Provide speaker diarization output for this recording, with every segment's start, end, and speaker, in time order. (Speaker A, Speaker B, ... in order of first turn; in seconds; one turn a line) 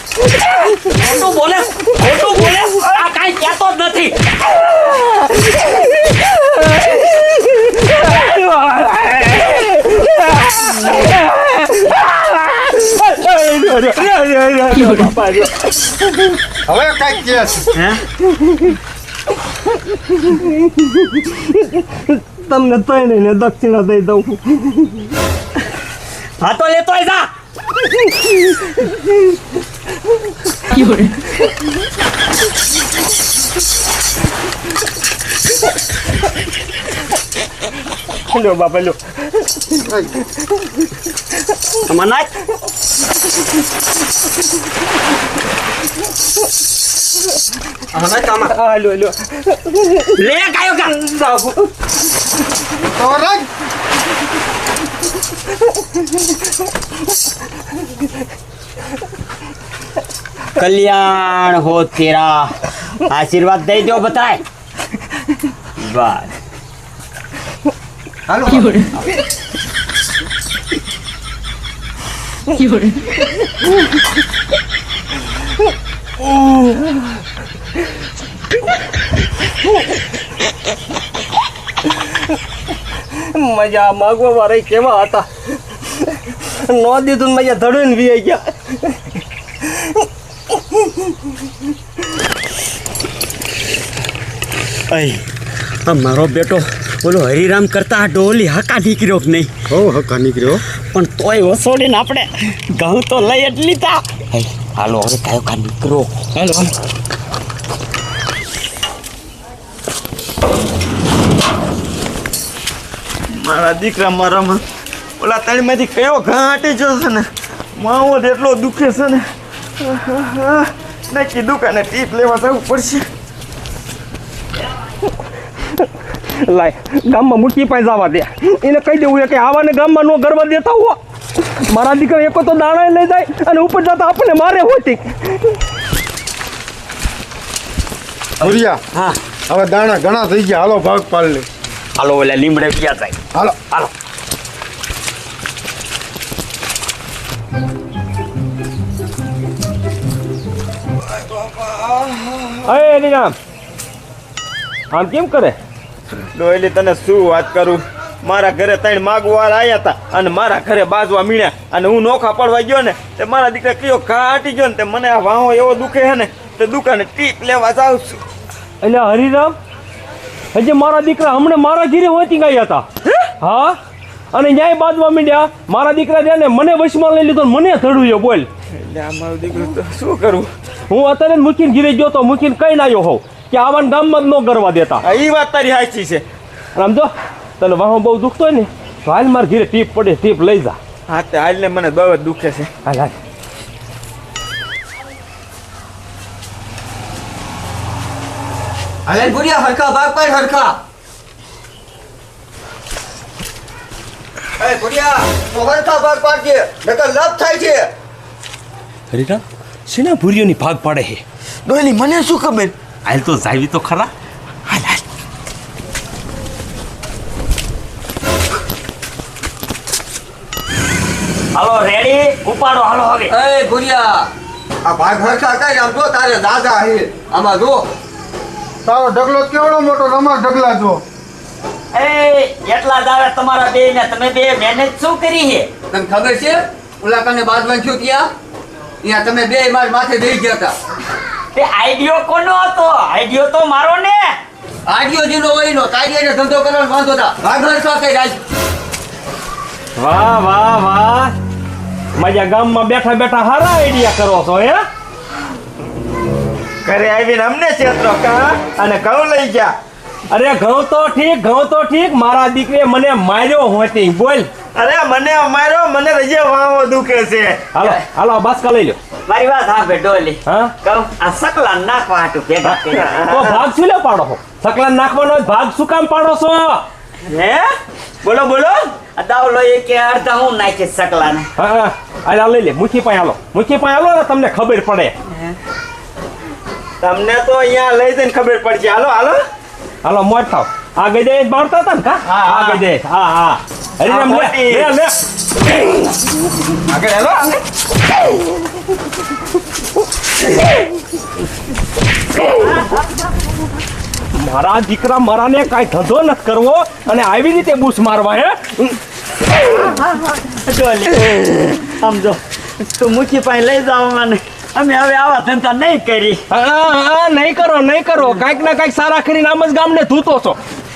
Speaker A: 0.8-4.3
Speaker B: 5.1-15.9
Speaker C: 16.7-17.7
Speaker A: 17.7-18.0
Speaker B: 21.2-25.0
Speaker A: 26.4-27.3
Speaker B: 30.7-31.0
Speaker B: 38.3-39.0
Speaker A: 41.8-42.3
Speaker D: 48.0-48.3
Speaker B: 48.5-49.2
Speaker A: 50.1-51.1
Speaker B: 51.1-51.5
Speaker C: 52.9-53.5
Speaker A: 60.5-64.4
Speaker A: 65.8-66.3
Speaker D: 68.3-68.8
Speaker B: 76.3-76.7
Speaker B: 83.2-85.3
Speaker B: 86.3-88.8
Speaker A: 94.9-95.2
Speaker A: 95.8-99.6
Speaker C: 99.7-100.6
Speaker A: 100.9-106.7
Speaker E: 113.3-114.6
Speaker E: 115.2-117.2
Speaker E: 117.8-119.2
Speaker E: 119.8-123.0
Speaker B: 126.5-131.0
Speaker B: 131.7-135.6
Speaker C: 138.4-138.8
Speaker A: 138.4-139.2
Speaker C: 139.5-141.4
Speaker A: 141.9-143.2
Speaker C: 143.3-143.7
Speaker E: 151.3-152.6
Speaker B: 152.7-153.3
Speaker B: 154.9-155.6
Speaker E: 156.3-168.2
Speaker B: 168.8-169.6
Speaker B: 170.5-172.8
Speaker B: 173.4-173.8
Speaker B: 174.3-178.5
Speaker E: 178.7-180.5
Speaker B: 180.9-185.0
Speaker E: 185.0-186.2
Speaker B: 186.8-190.8
Speaker E: 191.1-192.7
Speaker B: 192.8-193.2
Speaker D: 199.1-200.8
Speaker D: 204.6-207.9
Speaker B: 209.1-211.2
Speaker E: 211.7-212.7
Speaker B: 213.0-214.1
Speaker B: 214.7-215.0
Speaker A: 221.5-223.3
Speaker D: 223.3-224.3
Speaker D: 224.8-227.9
Speaker C: 228.8-231.0
Speaker A: 231.9-235.7
Speaker D: 235.9-238.3
Speaker D: 239.0-240.7
Speaker A: 241.5-244.4
Speaker D: 244.9-248.4
Speaker B: 250.0-251.3
Speaker B: 252.2-254.8
Speaker E: 256.8-259.7
Speaker B: 260.3-264.5
Speaker E: 264.7-267.6
Speaker B: 267.7-269.0
Speaker A: 269.2-273.2
Speaker B: 270.4-270.7
Speaker B: 272.6-276.8
Speaker E: 273.2-273.6
Speaker A: 277.3-277.6
Speaker E: 278.2-278.8
Speaker A: 279.1-281.5
Speaker B: 281.6-285.1
Speaker A: 285.3-285.6
Speaker E: 287.0-289.4
Speaker B: 290.0-295.1
Speaker E: 292.2-292.8
Speaker E: 294.0-294.9
Speaker E: 296.9-297.5
Speaker B: 304.3-309.0
Speaker A: 309.5-316.4
Speaker B: 316.5-320.6